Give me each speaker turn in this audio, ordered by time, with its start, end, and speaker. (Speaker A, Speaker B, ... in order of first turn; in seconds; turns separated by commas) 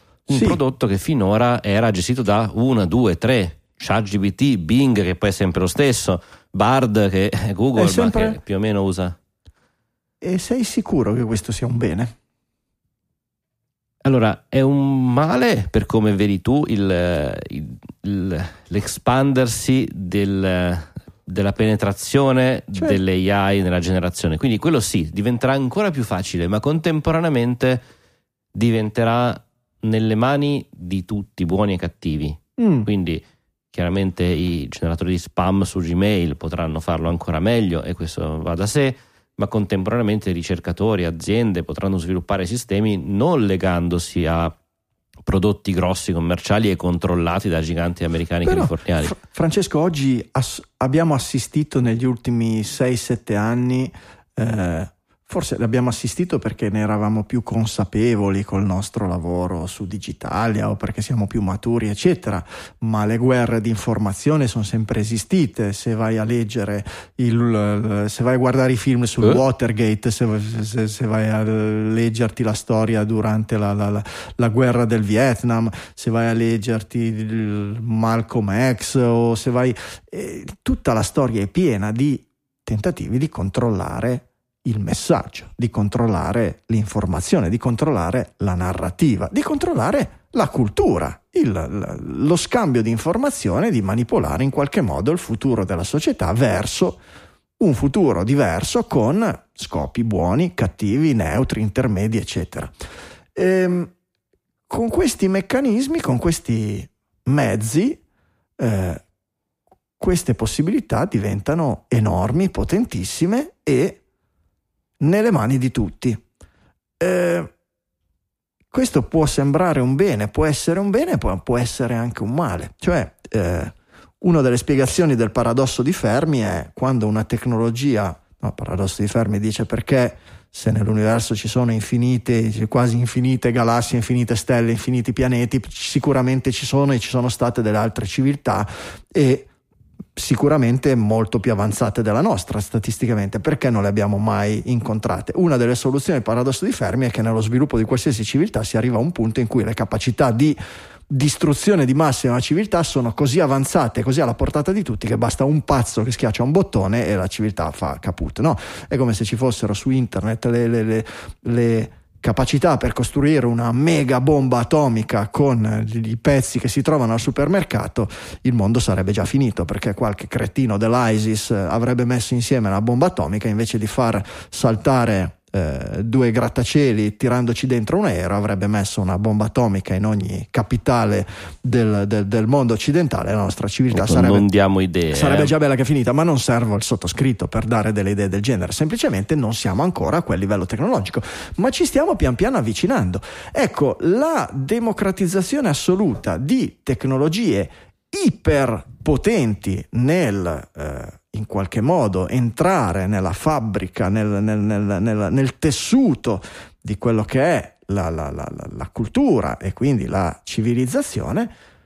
Speaker A: 0.3-0.6, Speaker B: 0.3-9.2, Speaker A: 7.8-8.4, Speaker A: 10.2-12.1, Speaker B: 14.0-27.8, Speaker A: 22.8-23.0, Speaker B: 28.5-44.5, Speaker A: 32.6-32.9, Speaker B: 45.2-49.1, Speaker A: 48.5-97.0, Speaker A: 97.6-102.7, Speaker A: 103.3-103.9, Speaker A: 104.7-108.0, Speaker A: 108.6-109.0, Speaker A: 110.0-114.0, Speaker A: 115.0-116.2, Speaker A: 117.0-117.5, Speaker A: 118.7-139.5, Speaker A: 140.2-150.6, Speaker A: 151.1-184.5, Speaker B: 183.9-185.5, Speaker A: 185.1-211.5